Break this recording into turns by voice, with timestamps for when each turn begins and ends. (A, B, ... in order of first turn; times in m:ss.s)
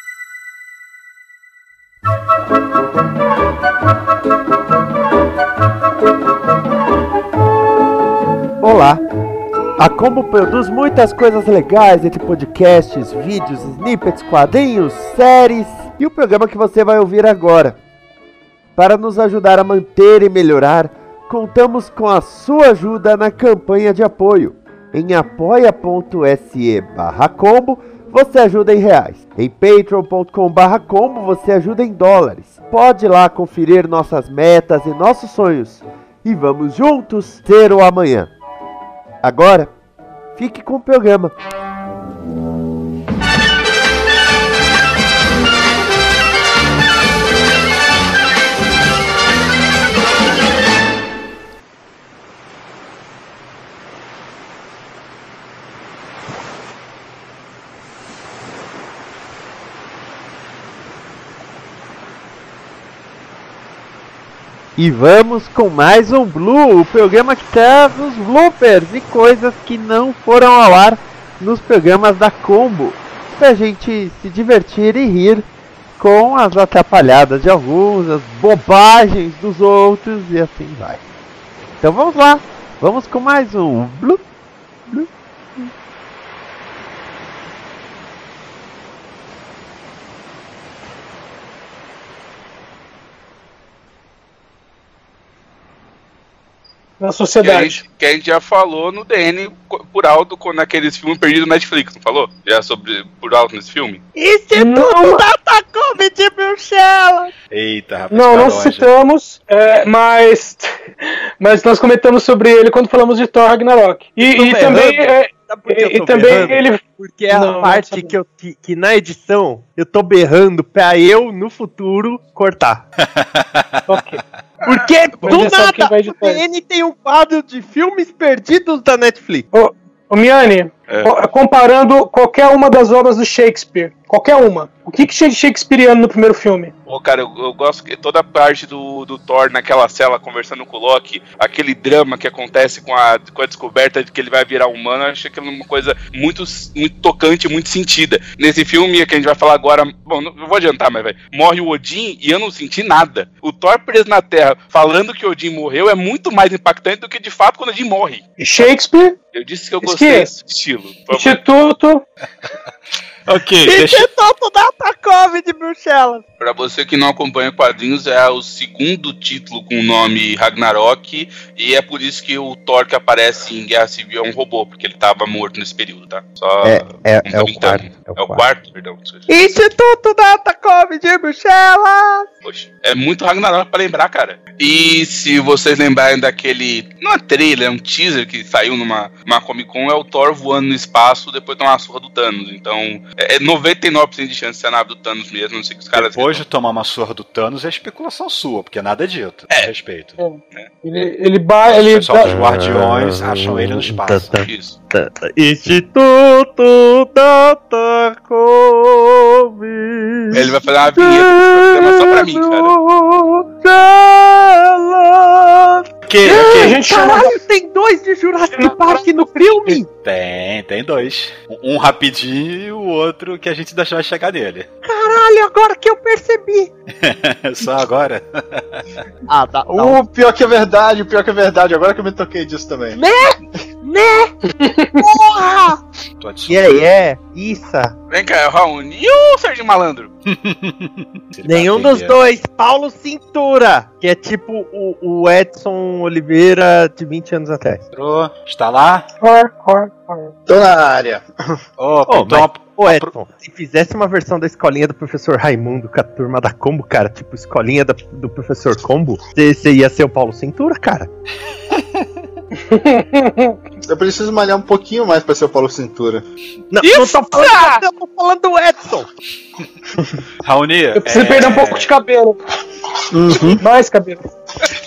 0:08.6-0:09.0 A
0:09.8-0:17.8 A
0:18.8-0:38.3 A
0:39.2-0:39.7 A
0:40.3-0:41.3 A
1:04.8-1:15.5 A
1:16.0-1:21.0 A
1:21.8-1:24.2 A
1:37.0-1:37.8 B
1:37.4-1:44.0 C
1:44.2-1:47.3 A
1:44.5-1:45.2 B
1:47.5-1:48.9 D
1:48.1-1:50.7 B
1:51.4-1:58.1 B
1:54.2-2:02.8 A
1:56.3-1:56.6 D
2:03.0-2:03.8 D
2:03.9-2:04.2 B
2:04.6-2:09.5 A
2:05.2-2:06.4 B
2:09.5-2:16.7 B
2:16.8-2:38.2 C
2:38.4-2:39.2 B
2:39.3-2:41.4 C
2:39.8-2:40.3 B
2:41.1-2:42.0 B
2:43.3-2:44.1 D
2:43.6-2:46.2 A
2:46.4-2:59.3 C
2:56.6-2:58.4 A
2:59.3-3:02.3 A
3:02.4-3:16.4 C
3:15.9-3:20.2 D
3:20.2-3:22.4 B
3:21.7-3:24.4 D
3:22.2-3:39.9 A
3:24.3-3:24.8 C
3:30.3-3:32.7 C
3:36.1-3:36.8 D
3:36.2-3:37.3 B
3:38.5-3:39.8 B
3:39.9-3:44.7 D
3:44.8-3:46.7 A
3:47.0-3:49.0 D
3:49.3-3:50.0 A
3:49.7-3:53.0 E
3:52.9-3:54.3 A
3:54.6-3:55.0 B
3:55.0-3:55.8 A
3:56.2-3:56.8 D
3:56.5-3:57.9 A
3:58.1-4:00.1 C
4:00.3-4:02.2 D
4:01.4-4:07.8 A
4:07.9-4:09.0 D
4:09.2-4:10.3 B
4:10.5-4:11.6 E
4:11.8-4:13.1 D
4:12.0-4:21.1 A
4:22.7-4:23.6 B
4:23.9-4:26.2 E
4:26.7-4:29.1 A
4:26.9-4:27.6 B
4:30.4-4:31.9 D
4:31.0-4:32.4 B
4:33.1-4:33.6 E
4:33.5-4:34.2 B